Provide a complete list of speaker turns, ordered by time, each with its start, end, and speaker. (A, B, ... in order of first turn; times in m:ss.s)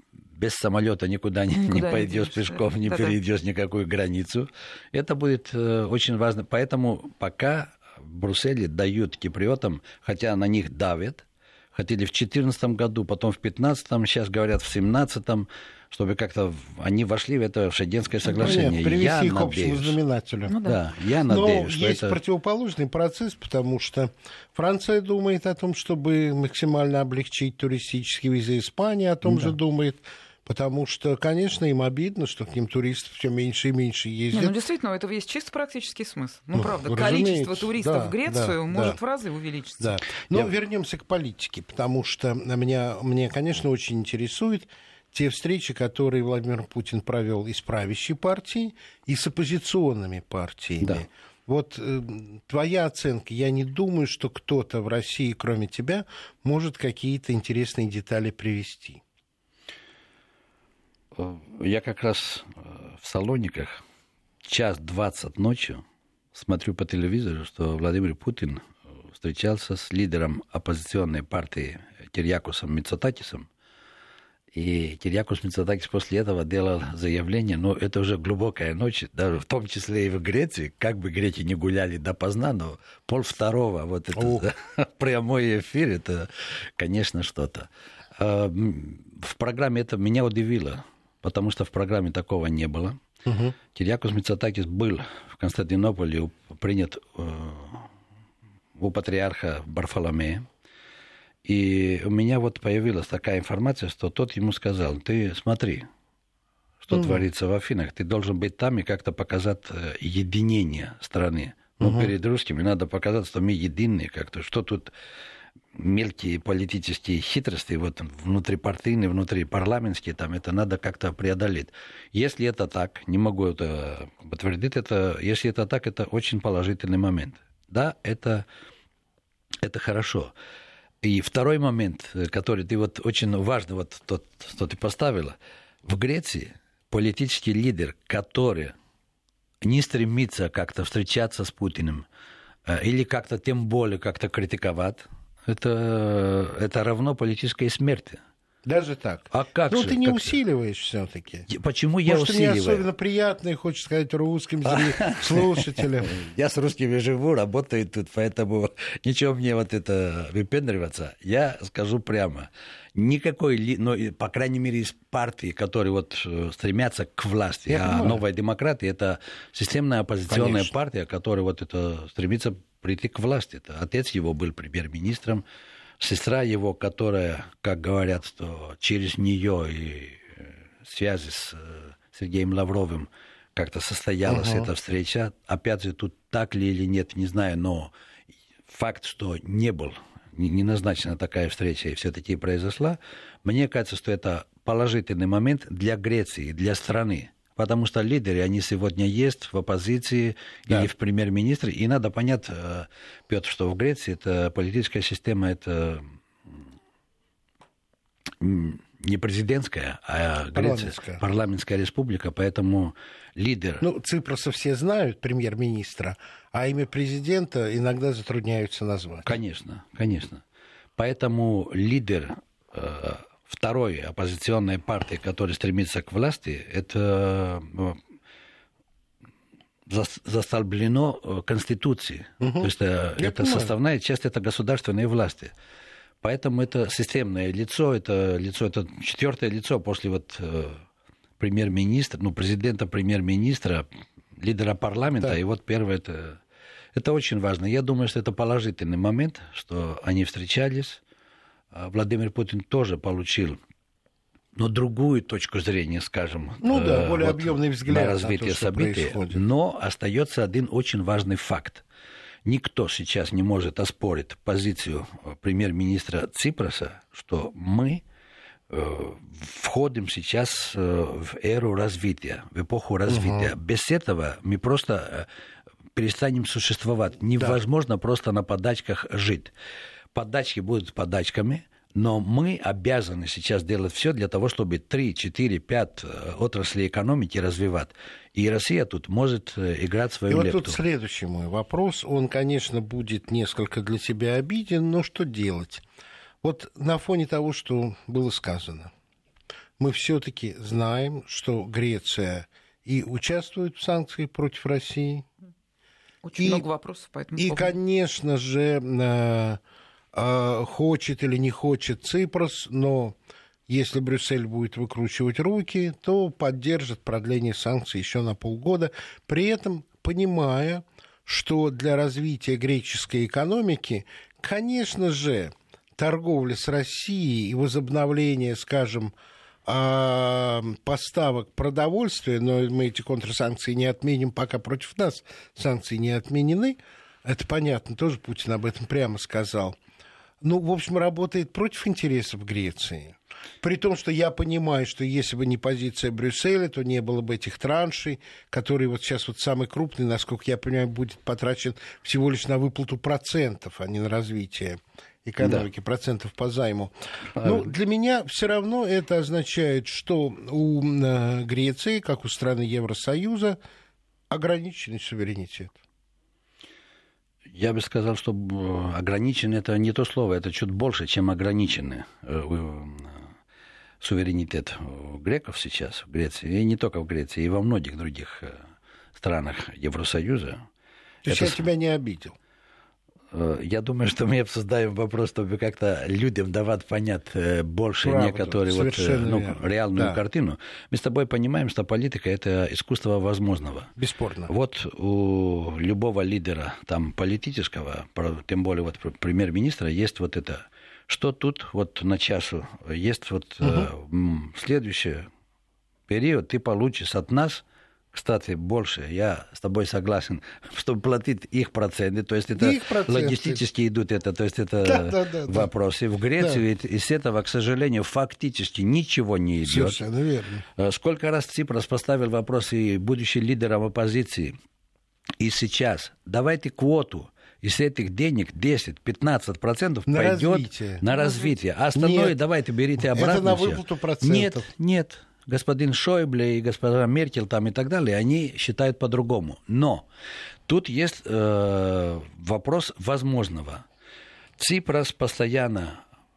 0:00.4-0:20.0 A
0:01.5-0:03.2 B
0:18.2-0:18.6 B
0:18.3-0:20.6 C
0:20.4-0:20.8 B
0:20.6-0:22.2 A
0:21.3-0:34.5 C
0:29.2-0:29.5 A
0:34.3-0:40.0 B
0:36.5-0:39.0 C
0:39.8-0:59.0 C
1:01.2-1:03.8 A
1:04.4-1:05.8 A
1:06.3-1:13.5 A
1:14.5-1:33.0 A
1:24.2-1:24.4 C
1:33.2-1:33.6 C
1:33.7-1:37.9 A
1:38.8-1:40.5 A
1:41.4-1:45.9 A
1:46.8-1:54.9 A
1:46.9-1:47.2 C
1:51.8-1:52.1 C
1:55.7-2:08.4 A
2:09.6-2:10.3 A
2:11.0-2:18.7 A
2:19.6-2:22.0 A
2:22.6-2:28.2 A
2:28.6-2:31.4 C
2:29.3-2:30.4 A
2:31.5-2:32.9 A
2:32.0-2:36.2 C
2:34.6-2:55.4 A
2:47.7-2:48.2 C
2:50.3-2:50.7 C
2:56.0-3:07.9 A
3:04.2-3:04.7 C
3:08.7-3:26.0 A
3:28.4-3:33.8 A
3:30.5-3:31.2 C
3:33.8-3:39.3 C
3:39.2-3:40.4 A
3:41.0-3:48.0 A
3:49.9-3:55.5 A
3:52.4-3:53.7 C
3:56.2-4:00.8 A
4:01.4-4:03.8 A
4:04.4-4:06.4 A
4:06.9-4:11.0 A
4:11.7-4:13.6 A
4:14.5-4:21.8 A
4:16.6-4:19.4 C
4:22.4-4:28.0 A
4:28.7-4:35.3 A
4:33.1-4:33.5 C
4:35.9-4:39.5 A
4:40.1-4:50.8 A
4:50.3-4:55.8 C
4:56.4-4:58.9 C
4:59.8-5:05.3 C
5:06.2-5:07.8 B
5:06.4-5:06.6 C
5:07.4-5:09.6 C
5:10.1-5:13.2 C
5:13.7-5:29.1 C
5:29.6-5:39.8 C
5:40.4-6:03.6 C
5:55.4-5:55.6 A
5:57.4-5:57.7 A
6:04.3-6:05.8 C
6:07.5-6:13.2 A
6:14.0-6:18.6 A
6:19.2-6:20.6 A
6:21.2-6:22.4 C
6:21.2-6:21.6 A
6:23.3-6:33.9 A
6:28.0-6:30.2 C
6:34.0-6:34.5 C
6:34.5-6:45.3 A
6:43.6-6:43.9 C
6:46.1-7:00.0 A
6:52.6-6:53.6 C
6:54.8-6:55.7 C
6:59.6-7:00.6 C
7:00.8-7:04.5 A
7:05.4-7:20.0 A
7:10.1-7:11.0 C
7:11.1-7:11.5 B
7:11.9-7:12.3 C
7:13.0-7:14.7 C
7:20.7-7:23.8 A
7:24.6-7:26.0 A